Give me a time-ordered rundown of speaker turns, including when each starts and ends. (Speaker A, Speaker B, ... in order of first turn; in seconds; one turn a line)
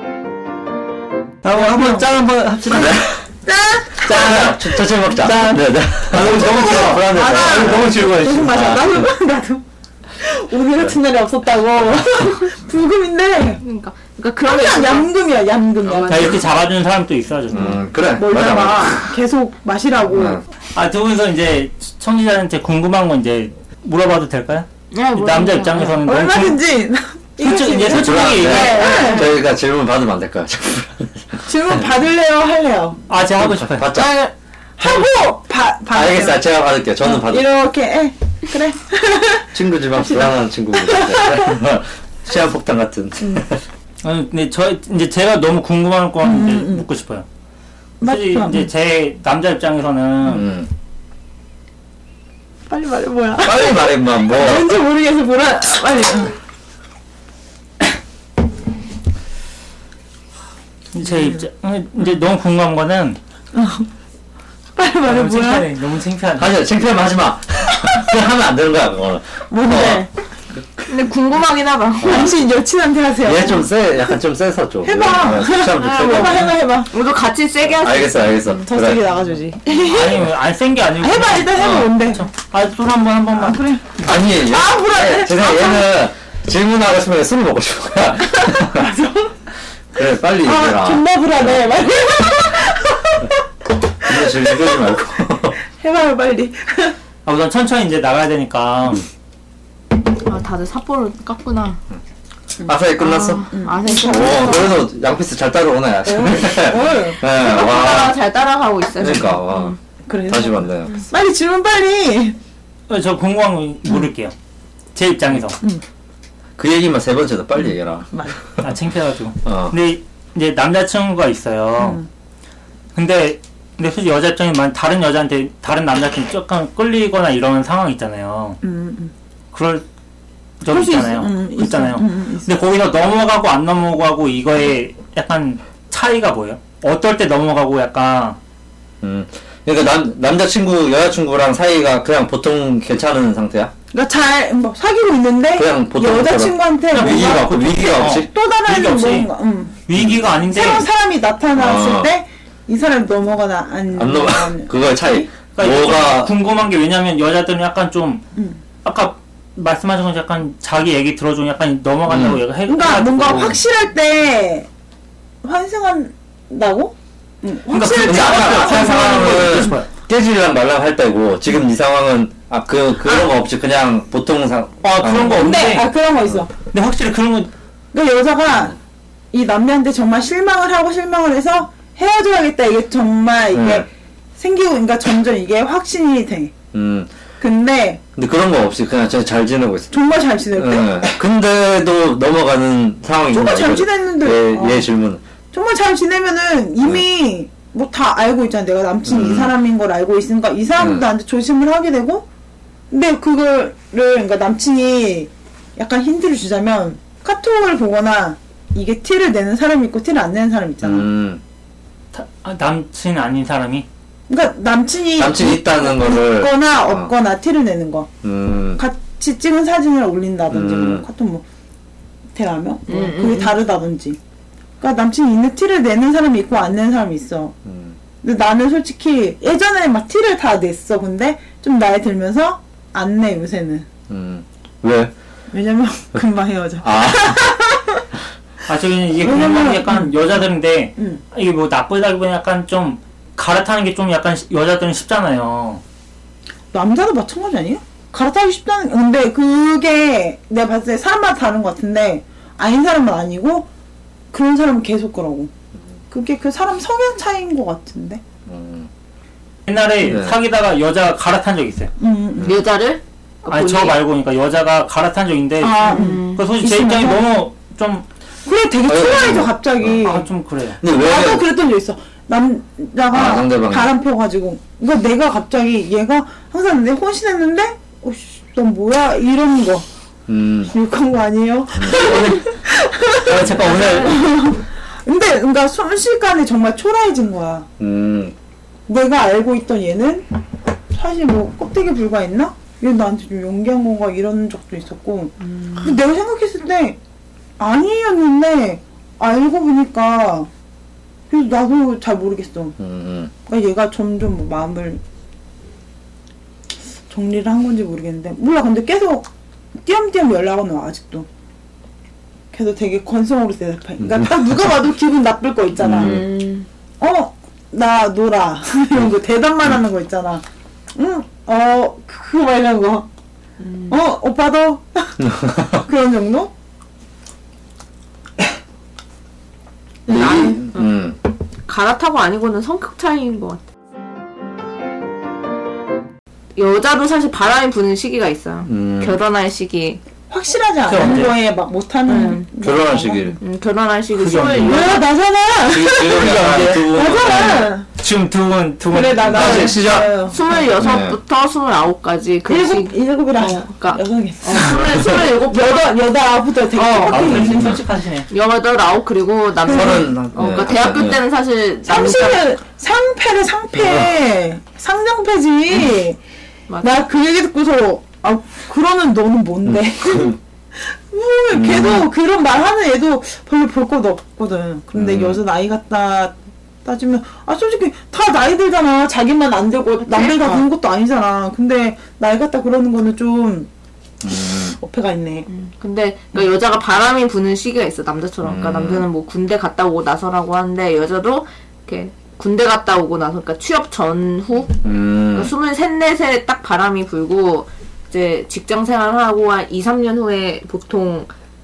Speaker A: 1.4-3.1
Speaker B: 1.6-2.0
Speaker C: 2.7-3.2
Speaker B: 2.7-5.4
Speaker C: 4.0-9.1
Speaker A: 4.1-4.4
Speaker A: 5.2-8.1
Speaker B: 6.1-9.6
Speaker B: 10.2-13.6
Speaker D: 13.6-15.1
Speaker B: 14.5-16.4
Speaker D: 15.8-16.4
Speaker A: 16.1-17.8
Speaker C: 17.5-19.1
Speaker B: 18.1-20.4
Speaker C: 20.1-20.4
Speaker A: 20.7-26.6
Speaker D: 24.9-26.0
Speaker B: 26.0-29.3
Speaker A: 27.4-28.9
Speaker C: 27.9-31.8
Speaker D: 28.5-29.3
Speaker B: 31.5-33.0
Speaker A: 33.1-34.0
Speaker C: 33.4-34.2
Speaker B: 34.8-36.4
Speaker C: 35.9-37.5
Speaker B: 37.0-41.6
Speaker C: 39.5-43.6
Speaker A: 44.0-47.2
Speaker B: 46.2-46.9
Speaker B: 48.0-48.7
Speaker A: 48.0-50.5
Speaker C: 50.3-50.7
Speaker B: 52.7-56.4
Speaker C: 53.4-54.7
Speaker A: 60.9-63.2
Speaker B: 63.5-63.9
Speaker B: 64.8-65.7
Speaker A: 65.0-66.6
Speaker C: 66.4-70.0
Speaker B: 69.5-70.1
Speaker D: 70.9-72.4
Speaker C: 72.0-72.3
Speaker B: 72.0-73.7
Speaker C: 73.2-76.6
Speaker B: 74.8-76.9
Speaker D: 75.8-78.5
Speaker C: 77.7-79.1
Speaker B: 78.6-80.3
Speaker A: 79.7-84.1
Speaker B: 81.0-82.2
Speaker C: 81.5-82.0
Speaker B: 83.3-85.9
Speaker C: 84.0-88.9
Speaker B: 88.6-89.3
Speaker C: 90.0-92.2
Speaker B: 90.4-93.3
Speaker C: 94.0-95.6
Speaker B: 94.1-94.8
Speaker B: 95.8-97.0
Speaker A: 97.2-99.0
Speaker D: 100.1-101.8
Speaker C: 102.6-108.2
Speaker D: 103.0-104.8
Speaker B: 103.5-104.8
Speaker B: 106.0-107.2
Speaker D: 107.3-109.8
Speaker C: 109.0-109.8
Speaker B: 110.1-112.4
Speaker C: 110.3-111.0
Speaker A: 112.9-114.3
Speaker A: 115.0-115.6
Speaker C: 116.6-118.1
Speaker B: 118.1-118.4
Speaker A: 118.6-122.0
Speaker C: 119.5-119.8
Speaker B: 121.8-122.1
Speaker A: 123.0-128.6
Speaker B: 128.6-129.1
Speaker A: 129.5-129.8
Speaker A: 130.6-138.4
Speaker B: 130.7-132.5
Speaker C: 139.0-143.7
Speaker B: 143.9-149.8
Speaker C: 145.6-148.3
Speaker A: 146.9-149.3
Speaker A: 149.9-150.9
Speaker B: 150.5-155.3
Speaker C: 151.6-152.1
Speaker C: 153.9-156.3
Speaker A: 155.6-158.2
Speaker A: 158.8-163.6
Speaker C: 162.1-162.4
Speaker B: 162.7-164.7
Speaker C: 163.3-163.6
Speaker B: 165.4-169.7
Speaker A: 167.7-169.9
Speaker C: 168.0-175.6
Speaker A: 174.8-175.9
Speaker B: 175.3-176.5
Speaker A: 176.6-177.5
Speaker B: 177.9-178.8
Speaker B: 179.3-186.5
Speaker C: 183.5-183.9
Speaker C: 186.7-187.1
Speaker B: 187.4-188.0
Speaker C: 188.2-189.9
Speaker B: 189.9-191.2
Speaker C: 190.6-195.2
Speaker B: 193.3-194.9
Speaker B: 195.5-202.3
Speaker C: 199.1-199.5
Speaker C: 200.8-201.1
Speaker B: 202.9-211.1
Speaker C: 210.8-211.4
Speaker A: 212.1-213.9
Speaker B: 214.3-218.1
Speaker C: 215.2-217.1
Speaker C: 218.2-218.8
Speaker B: 218.8-221.4
Speaker C: 220.5-221.1
Speaker B: 222.3-224.2
Speaker D: 222.9-223.6
Speaker B: 224.8-227.6
Speaker C: 227.7-227.9
Speaker B: 228.2-233.9
Speaker C: 234.1-235.1
Speaker B: 235.5-238.0
Speaker C: 236.8-237.5
Speaker A: 238.7-245.8
Speaker B: 239.2-240.4
Speaker B: 246.7-253.7
Speaker B: 254.3-255.5
Speaker B: 256.1-258.2
Speaker C: 258.5-258.9
Speaker A: 259.7-261.9
Speaker C: 260.0-260.4
Speaker B: 262.0-262.6
Speaker D: 262.4-264.0
Speaker A: 263.5-268.1
Speaker B: 265.6-267.4
Speaker D: 265.8-266.5
Speaker B: 268.4-270.3
Speaker C: 268.9-270.1
Speaker A: 270.0-270.8
Speaker C: 270.8-271.5
Speaker B: 270.9-279.9
Speaker C: 273.1-273.9
Speaker C: 280.3-280.7
Speaker B: 280.7-287.7
Speaker C: 281.8-282.4
Speaker A: 281.9-282.4
Speaker A: 283.2-284.3
Speaker C: 283.3-284.0
Speaker C: 287.8-288.4
Speaker B: 288.9-290.3
Speaker B: 290.9-297.0
Speaker D: 295.6-295.9
Speaker B: 297.6-300.5
Speaker B: 301.3-302.8
Speaker C: 302.8-303.3
Speaker B: 303.5-305.0
Speaker B: 307.1-309.3
Speaker B: 309.8-311.3
Speaker B: 312.5-316.3
Speaker C: 314.0-314.7
Speaker C: 315.8-316.2
Speaker D: 315.9-316.7
Speaker B: 317.0-320.4
Speaker B: 320.9-323.1
Speaker D: 323.6-324.0
Speaker B: 323.9-326.5
Speaker C: 325.2-325.8
Speaker B: 330.1-330.6
Speaker D: 330.1-330.9
Speaker C: 330.1-331.2
Speaker D: 331.7-333.6
Speaker D: 336.6-340.0
Speaker C: 338.7-339.2
Speaker B: 340.3-343.4
Speaker A: 340.9-341.4
Speaker D: 342.1-342.5
Speaker C: 342.6-343.4
Speaker D: 343.4-345.1
Speaker A: 344.1-345.0
Speaker B: 344.6-347.9
Speaker C: 345.7-347.7
Speaker A: 346.0-346.9
Speaker A: 348.0-350.0
Speaker B: 348.9-350.7
Speaker C: 349.2-351.2
Speaker D: 349.4-355.8
Speaker B: 352.5-357.8
Speaker C: 354.5-355.2
Speaker A: 356.8-358.3
Speaker D: 356.8-357.4
Speaker C: 357.2-357.8
Speaker D: 358.3-362.4
Speaker B: 359.6-360.1
Speaker C: 359.7-361.2
Speaker B: 361.9-366.2
Speaker C: 363.8-364.2
Speaker D: 366.7-367.0
Speaker B: 366.8-383.7
Speaker C: 369.6-370.4
Speaker C: 371.5-372.1
Speaker C: 374.9-375.4
Speaker D: 380.0-380.7
Speaker C: 384.2-384.8
Speaker B: 384.5-385.5
Speaker D: 385.5-401.3
Speaker C: 388.4-389.1
Speaker C: 394.8-395.5